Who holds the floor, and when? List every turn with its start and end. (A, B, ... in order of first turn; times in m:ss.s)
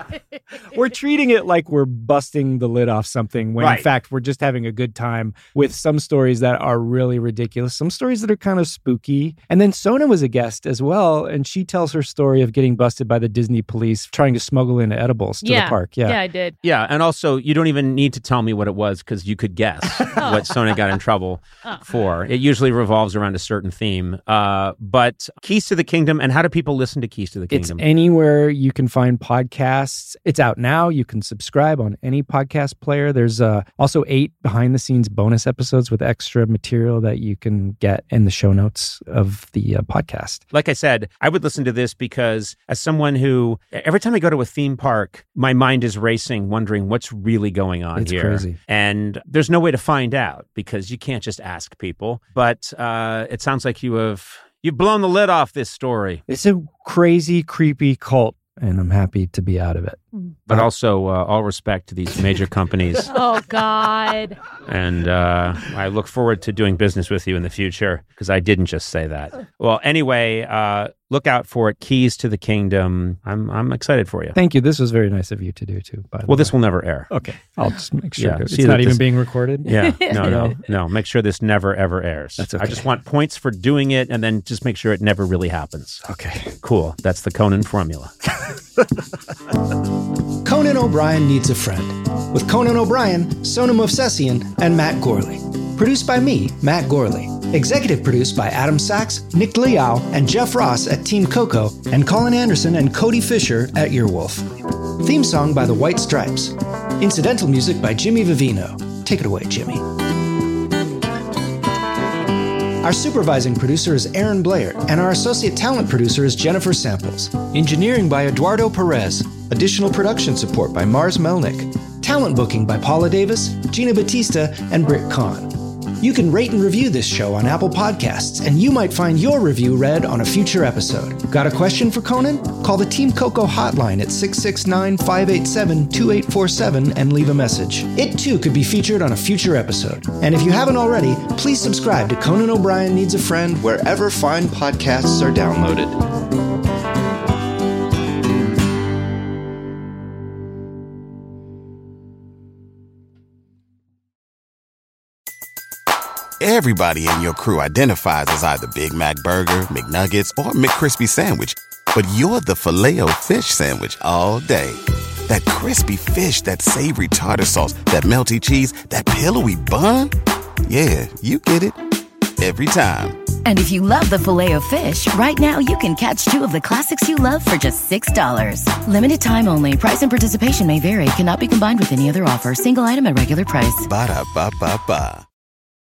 0:00.7-0:16.2 A
0:03.6-0:03.9 B
0:15.4-0:16.6 C
0:16.6-0:27.8 B
0:20.1-0:20.4 C
0:27.5-0:40.4 A
0:40.5-0:56.2 B
0:48.0-0:48.6 A
0:56.3-1:00.7 A
1:00.5-1:03.1 B
1:03.1-1:04.4 C
1:04.6-1:14.4 B
1:14.3-1:20.6 A
1:16.3-1:17.1 B
1:18.2-1:19.1 B
1:19.6-1:26.0 B
1:19.8-1:20.5 C
1:22.4-1:22.9 A
1:26.0-1:26.5 A
1:26.6-1:28.1 B
1:30.4-1:49.9 D
1:52.8-2:26.0 D
2:36.4-2:50.1 E
2:50.7-2:51.8 E
2:52.4-2:53.2 E
2:53.4-3:03.9 F
3:03.8-3:05.2 E